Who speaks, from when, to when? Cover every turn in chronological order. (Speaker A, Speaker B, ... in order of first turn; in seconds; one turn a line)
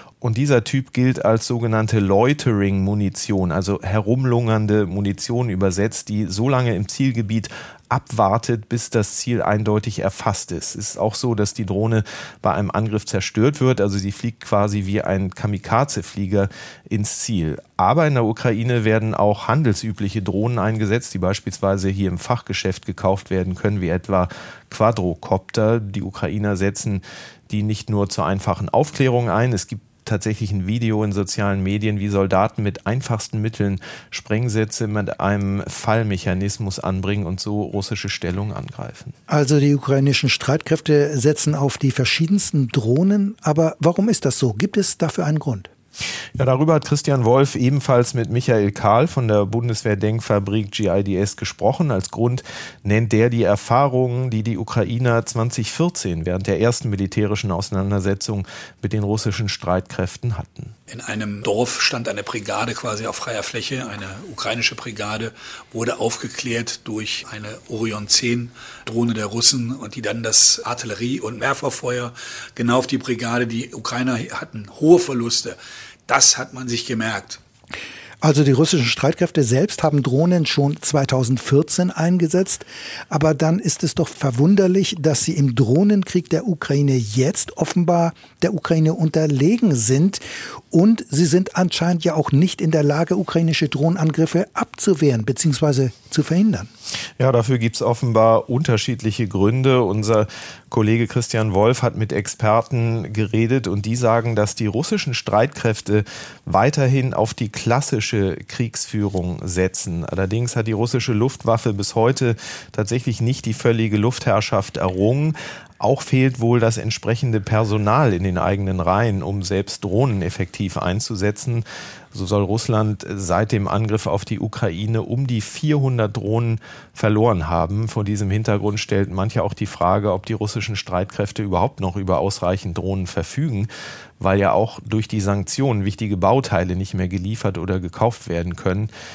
Speaker A: 0.2-39.1
Speaker B: 39.3-45.7
Speaker A: 46.4-60.7
Speaker C: 60.9-75.5
Speaker C: 76.1-77.4
Speaker B: 78.2-96.7
Speaker A: 97.2-133.7
Speaker A: 134.2-138.9